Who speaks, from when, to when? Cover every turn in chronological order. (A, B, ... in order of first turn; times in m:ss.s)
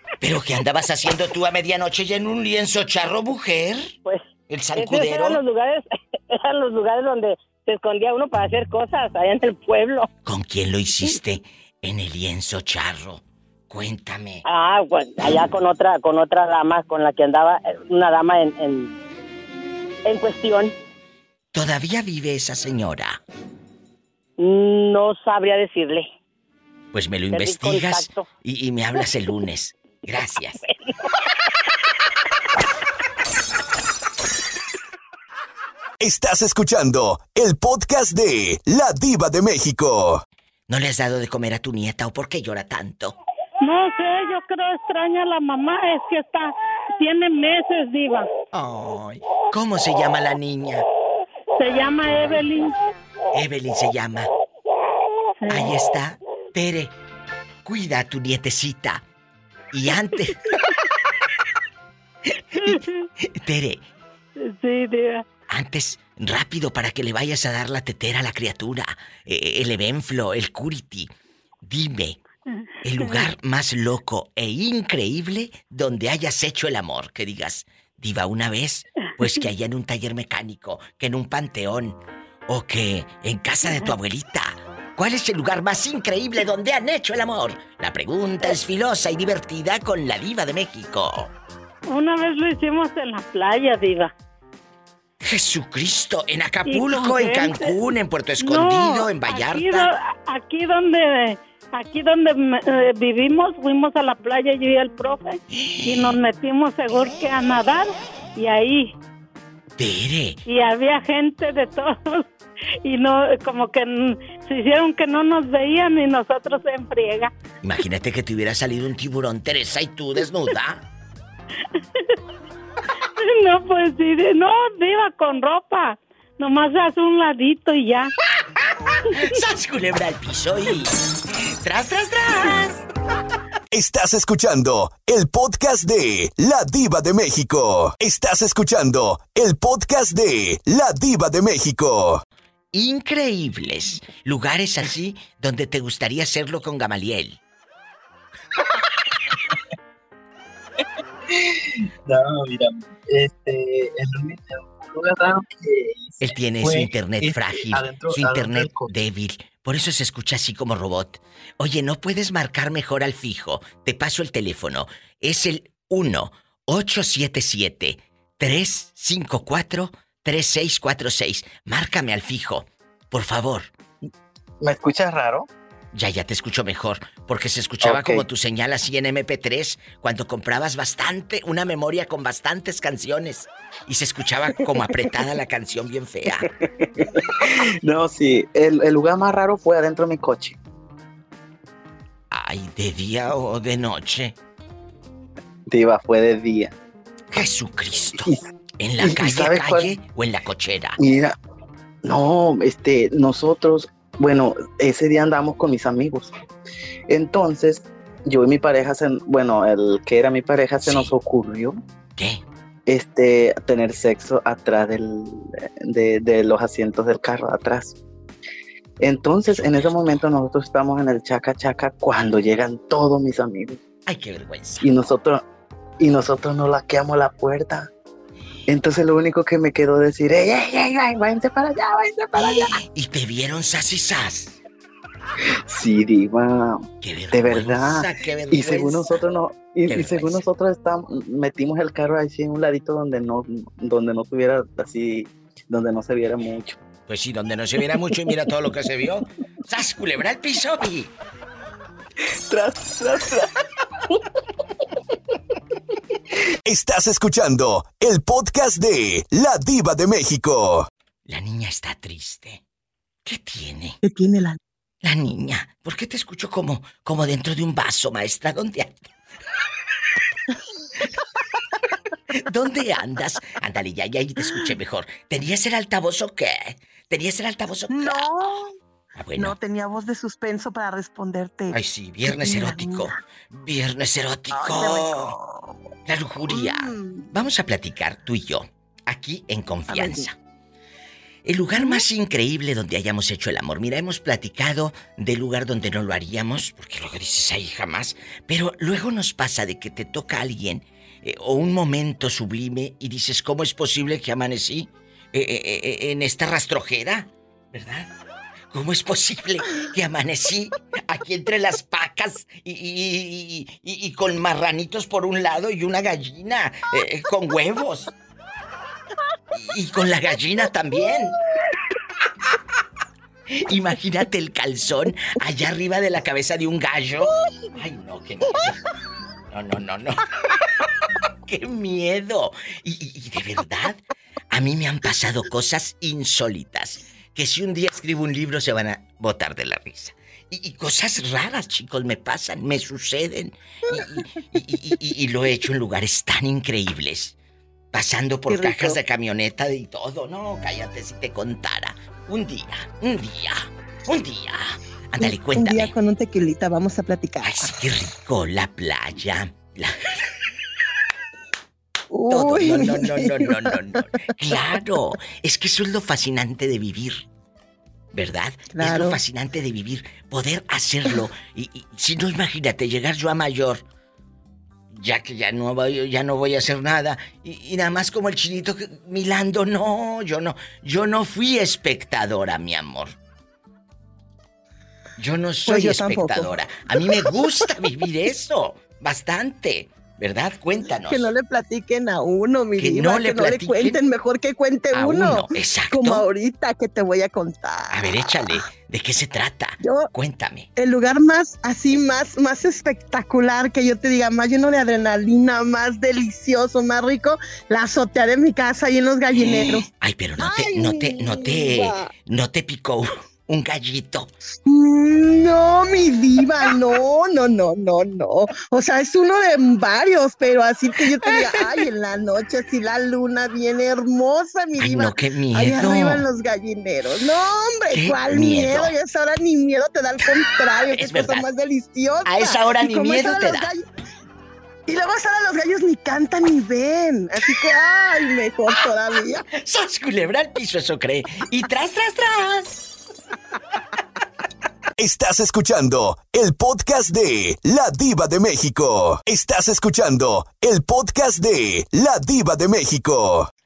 0:00.2-0:03.9 A
0:04.5-0:05.4 A
0:04.8-0:10.1 B
0:10.2-0:14.4 A
0:14.4-0:18.9 B
0:20.0-0:20.7 B
0:21.5-0:23.2 A
0:24.4-0:26.1 B
0:26.9-0:30.6 A
0:27.3-0:28.3 B
0:36.0-0:40.2 C
0:40.7-0:43.2 A
0:43.6-0:48.3 D
0:48.5-0:50.8 A
0:51.6-0:52.7 D
0:53.3-0:54.3 A
0:55.5-0:56.9 A
0:57.6-0:59.0 A
0:59.7-1:00.4 A
1:03.3-1:03.8 A
1:04.4-1:05.2 D
1:05.5-1:11.1 A
1:11.6-1:12.2 A
1:12.8-1:31.3 A
1:31.9-1:34.1 D
1:35.2-1:39.9 A
1:36.7-1:37.7 D
1:38.4-1:48.9 D
1:49.8-1:50.4 A
1:50.4-1:52.2 D
1:52.8-1:57.3 D
1:57.6-2:00.8 A
2:01.8-2:02.1 D
2:03.2-2:08.1 D
2:09.1-2:11.0 A
2:11.6-2:12.8 A
2:13.7-2:22.2 C
2:22.7-2:27.4 A
2:31.3-2:38.9 E
2:36.2-2:53.7 A
2:54.6-2:55.5 E
2:55.9-3:06.5 A
2:57.8-2:58.2 E
3:06.8-3:10.6 E
3:12.3-3:14.3 A
3:15.7-3:16.7 E
3:17.3-3:21.0 A
3:19.0-3:19.9 E
3:21.0-3:21.3 E
3:22.0-3:26.3 E
3:27.1-3:31.8 E
3:30.8-3:31.1 A
3:32.2-3:32.4 A
3:32.9-3:38.0 E
3:39.0-3:43.8 E
3:39.5-3:40.2 A
3:44.0-3:45.1 A
3:44.8-3:45.4 E
3:46.0-3:47.9 E
3:48.7-3:52.8 E
3:52.3-3:54.6 A
3:55.7-4:06.8 E
3:57.0-3:59.2 A
3:59.9-4:00.4 A
4:07.1-4:11.1 A
4:12.5-4:13.4 E
4:16.6-4:20.9 C
4:21.3-4:22.6 A
4:23.2-4:24.0 A
4:24.0-4:24.6 F
4:25.0-4:29.0 A
4:32.3-4:38.5 A
4:37.9-4:38.7 F
4:39.2-4:39.6 A
4:39.4-4:43.1 F
4:41.7-4:45.4 A
4:44.6-4:45.6 F
4:46.1-4:50.4 A
4:46.5-4:47.3 F
4:49.9-4:50.2 F
4:51.4-5:08.1 A
4:51.8-4:52.0 F
5:08.7-5:18.1 A
5:19.5-5:21.4 A
5:23.6-5:28.8 A
5:29.5-5:30.2 A
5:31.5-5:34.0 A
5:34.5-5:47.4 A
5:47.9-5:55.9 A
5:48.5-5:49.0 F
5:55.2-5:57.7 F
5:57.4-6:00.0 A
6:02.1-6:03.7 F
6:02.3-6:07.2 A
6:08.1-6:13.8 A
6:08.7-6:09.2 F
6:14.9-6:23.1 A
6:25.2-6:31.3 A
6:25.6-6:27.3 F
6:31.0-6:38.2 F
6:32.8-6:34.0 A
6:34.9-6:36.2 A
6:37.9-6:40.7 A
6:39.8-6:40.1 F
6:40.8-6:49.8 F
6:49.3-6:54.3 A
6:50.4-6:52.1 F
6:54.6-7:13.8 F
7:04.8-7:06.2 A
7:07.9-7:08.9 A
7:10.9-7:11.5 A
7:12.2-7:13.7 A
7:14.9-7:19.4 F
7:19.5-7:22.9 A
7:25.0-7:33.5 C